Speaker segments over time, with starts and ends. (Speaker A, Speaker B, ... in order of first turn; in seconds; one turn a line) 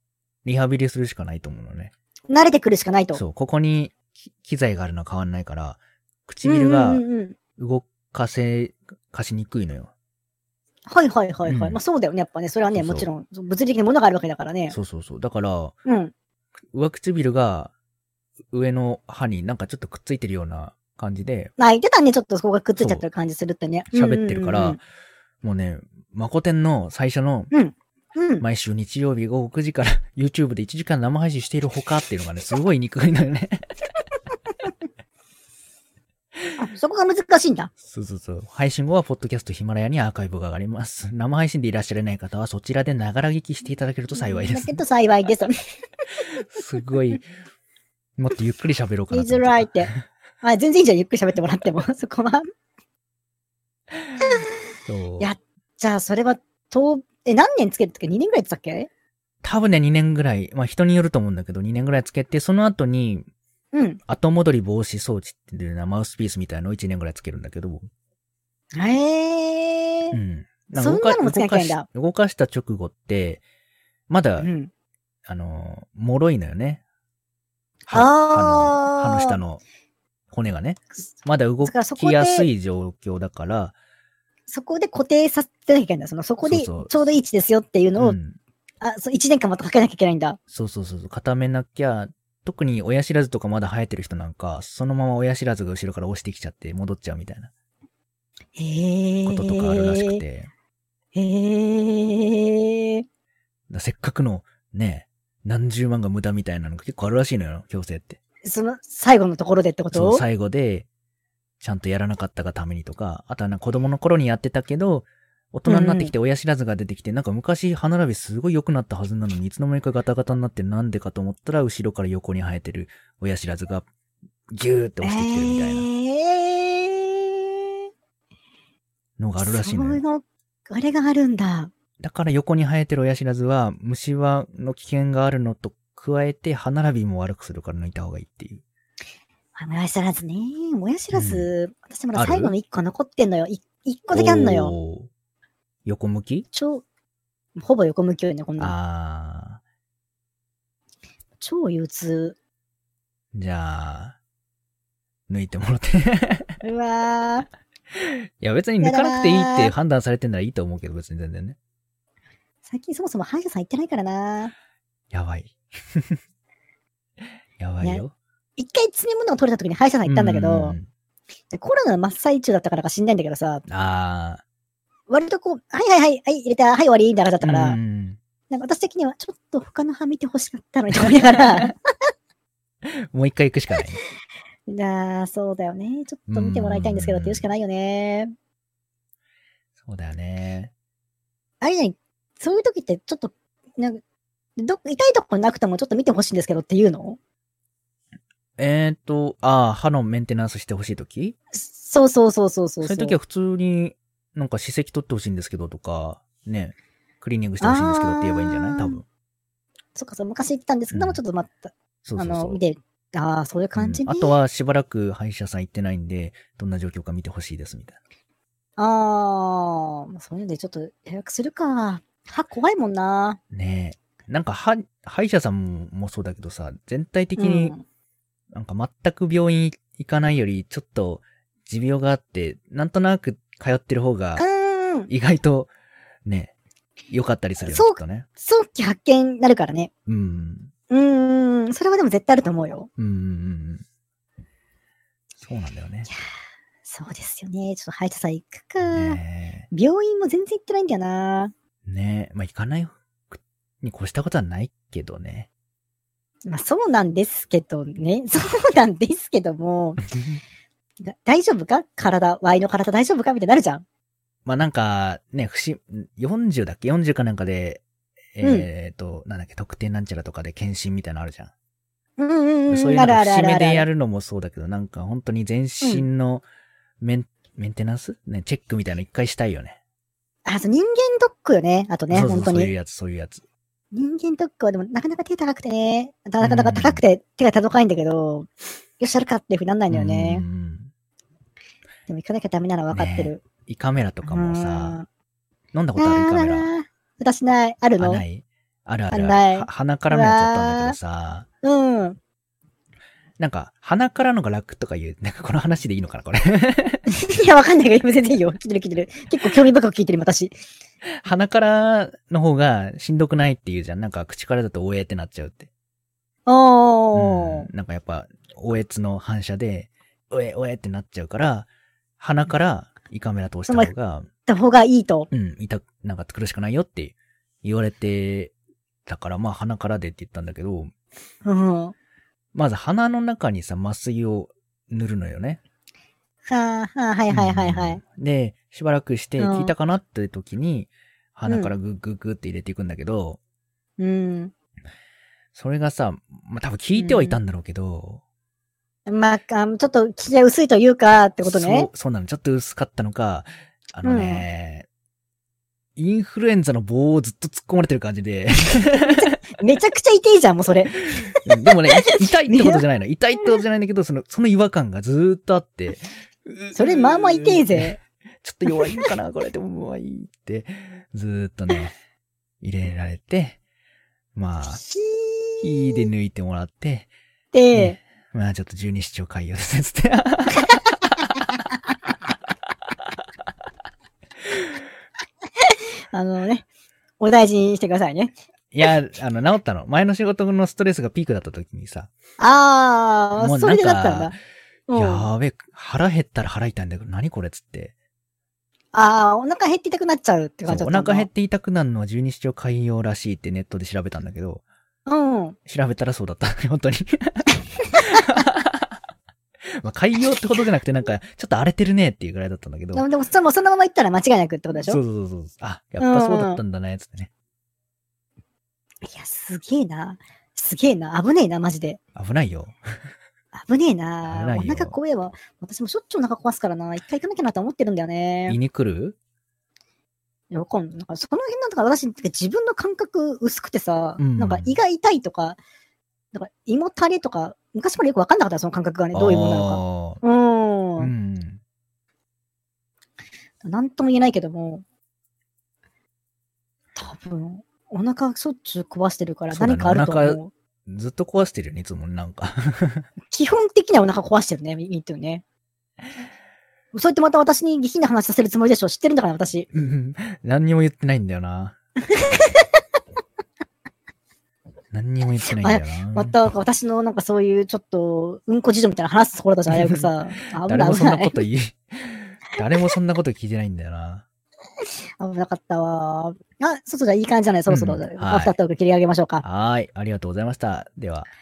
Speaker A: 0.4-1.9
Speaker B: 2.3-3.2
Speaker A: 3.1-7.0
Speaker B: 6.4-7.3
Speaker A: 7.6-9.9
Speaker B: 10.9-14.8
Speaker A: 11.4-11.8
Speaker A: 12.7-13.1
Speaker A: 14.7-15.7
Speaker B: 15.8-16.1
Speaker A: 16.7-17.7
Speaker A: 18.5-21.5
Speaker B: 21.6-24.8
Speaker A: 22.8-23.0
Speaker A: 23.9-24.8
Speaker A: 25.4-27.5
Speaker B: 27.5-28.4
Speaker A: 28.4-33.6
Speaker B: 36.6-37.7
Speaker A: 37.8-44.8
Speaker B: 44.1-45.5
Speaker A: 46.4-47.3
Speaker A: 48.2-50.0
Speaker B: 49.1-49.9
Speaker B: 50.4-52.4
Speaker A: 54.9-55.3
Speaker B: 55.2-58.9
Speaker A: 59.4-63.3
Speaker B: 63.7-64.0
Speaker A: 64.1-67.8
Speaker B: 68.7-70.2
Speaker A: 70.1-73.4
Speaker B: 70.8-71.8
Speaker A: 74.1-74.5
Speaker B: 74.4-74.7
Speaker A: 75.3-76.8
Speaker A: 77.9-79.6
Speaker B: 77.9-79.4
Speaker A: 80.3-83.7
Speaker B: 81.6-82.5
Speaker B: 84.5-88.2
Speaker A: 86.4-87.1
Speaker A: 88.0-88.3
Speaker B: 88.8-90.4
Speaker A: 90.5-97.5
Speaker B: 98.5-100.2
Speaker A: 99.2-100.5
Speaker B: 101.1-103.0
Speaker A: 103.7-108.2
Speaker B: 108.4-110.2
Speaker A: 109.9-110.9
Speaker A: 111.6-123.9
Speaker B: 115.7-116.1
Speaker A: 124.5-125.9
Speaker B: 125.0-127.7
Speaker A: 129.2-130.0
Speaker B: 129.4-131.7
Speaker A: 132.0-138.6
Speaker B: 139.6-144.8
Speaker A: 141.1-141.5
Speaker A: 142.1-142.5
Speaker A: 144.1-145.1
Speaker A: 145.8-146.4
Speaker B: 146.5-146.8
Speaker B: 147.6-148.7
Speaker A: 148.6-149.6
Speaker B: 151.4-152.3
Speaker A: 153.3-154.2
Speaker A: 155.3-156.5
Speaker B: 156.6-157.5
Speaker A: 157.9-161.6
Speaker B: 158.8-159.7
Speaker B: 162.6-164.5
Speaker A: 165.1-166.2
Speaker A: 167.6-168.1
Speaker B: 168.6-170.8
Speaker A: 170.0-170.9
Speaker B: 171.5-173.6
Speaker A: 173.7-174.4
Speaker B: 175.1-177.8
Speaker A: 177.4-178.2
Speaker B: 178.5-181.7
Speaker A: 182.8-184.0
Speaker B: 184.7-188.3
Speaker A: 186.3-187.4
Speaker A: 189.8-190.7
Speaker B: 191.6-194.0
Speaker B: 194.6-197.2
Speaker A: 198.6-201.3
Speaker B: 201.5-203.2
Speaker A: 202.8-209.0
Speaker B: 207.6-209.0
Speaker B: 209.9-214.4
Speaker A: 210.9-211.2
Speaker A: 212.0-212.6
Speaker A: 213.8-218.0
Speaker B: 218.8-223.4
Speaker A: 223.5-227.7
Speaker B: 227.4-227.8
Speaker A: 228.5-234.4
Speaker B: 234.4-235.1
Speaker A: 235.1-235.7
Speaker A: 236.2-236.5
Speaker A: 237.1-238.2
Speaker B: 237.7-239.9
Speaker A: 240.1-240.7
Speaker B: 240.9-242.9
Speaker A: 243.0-243.8
Speaker A: 245.4-246.1
Speaker B: 246.8-249.2
Speaker A: 248.8-249.7
Speaker B: 249.7-251.5
Speaker A: 251.8-255.5
Speaker B: 256.5-260.0
Speaker B: 261.0-263.8
Speaker A: 264.4-267.8
Speaker A: 268.3-271.5
Speaker B: 268.4-268.7
Speaker B: 272.2-273.9
Speaker A: 272.7-276.4
Speaker A: 277.0-279.8
Speaker B: 280.4-282.7
Speaker A: 282.1-283.4
Speaker B: 283.9-290.4
Speaker A: 286.4-287.0
Speaker A: 289.9-290.9
Speaker B: 292.1-293.4
Speaker A: 292.9-295.0
Speaker B: 294.2-295.1
Speaker A: 295.7-296.7
Speaker B: 295.9-298.2
Speaker A: 298.0-301.4
Speaker B: 299.1-301.0
Speaker B: 301.6-302.2
Speaker A: 303.4-307.0
Speaker B: 307.1-310.6
Speaker A: 311.0-315.7
Speaker B: 316.5-317.7
Speaker A: 317.1-321.7
Speaker A: 322.2-324.3
Speaker B: 324.4-325.3
Speaker A: 325.3-328.5
Speaker A: 329.1-330.9
Speaker B: 331.4-331.9
Speaker A: 332.5-335.6
Speaker B: 336.5-338.0
Speaker A: 337.3-343.4
Speaker B: 339.4-339.7
Speaker B: 341.5-341.7
Speaker B: 344.0-344.5
Speaker A: 345.5-348.2
Speaker B: 346.9-347.4
Speaker B: 349.1-351.9
Speaker A: 351.4-354.9
Speaker B: 354.0-354.4
Speaker A: 355.9-359.3
Speaker B: 359.0-361.4
Speaker A: 361.4-367.9
Speaker B: 362.0-362.8
Speaker B: 366.7-368.0
Speaker A: 368.4-371.9
Speaker B: 368.7-369.1
Speaker A: 372.6-373.6
Speaker A: 374.4-374.8
Speaker B: 374.7-376.1
Speaker A: 375.6-377.1
Speaker B: 377.5-378.0
Speaker A: 377.7-381.1
Speaker B: 385.6-386.6
Speaker B: 387.2-388.3
Speaker A: 388.7-392.1
Speaker B: 392.4-394.3
Speaker A: 393.4-394.4
Speaker B: 394.9-395.3
Speaker A: 394.9-397.9
Speaker B: 398.9-401.3
Speaker A: 400.6-404.6
Speaker B: 405.1-405.6
Speaker A: 405.7-408.9
Speaker A: 409.8-413.1
Speaker B: 412.9-415.0
Speaker A: 414.8-417.3
Speaker B: 416.0-416.6
Speaker B: 419.1-422.0
Speaker A: 422.1-422.8
Speaker B: 423.5-428.6
Speaker A: 424.2-424.9
Speaker A: 428.5-429.2
Speaker B: 430.5-435.6
Speaker A: 434.2-434.7
Speaker B: 436.3-441.1
Speaker A: 439.1-440.2
Speaker A: 441.0-441.6
Speaker B: 443.6-444.8
Speaker B: 446.9-450.5
Speaker A: 449.5-453.1
Speaker B: 453.3-455.4
Speaker B: 456.9-459.7
Speaker A: 459.7-461.7
Speaker B: 462.1-462.7
Speaker A: 464.9-466.4
Speaker B: 465.4-471.4
Speaker A: 469.7-470.0
Speaker A: 470.6-474.2
Speaker B: 475.2-479.4
Speaker A: 477.7-478.5
Speaker A: 479.4-481.3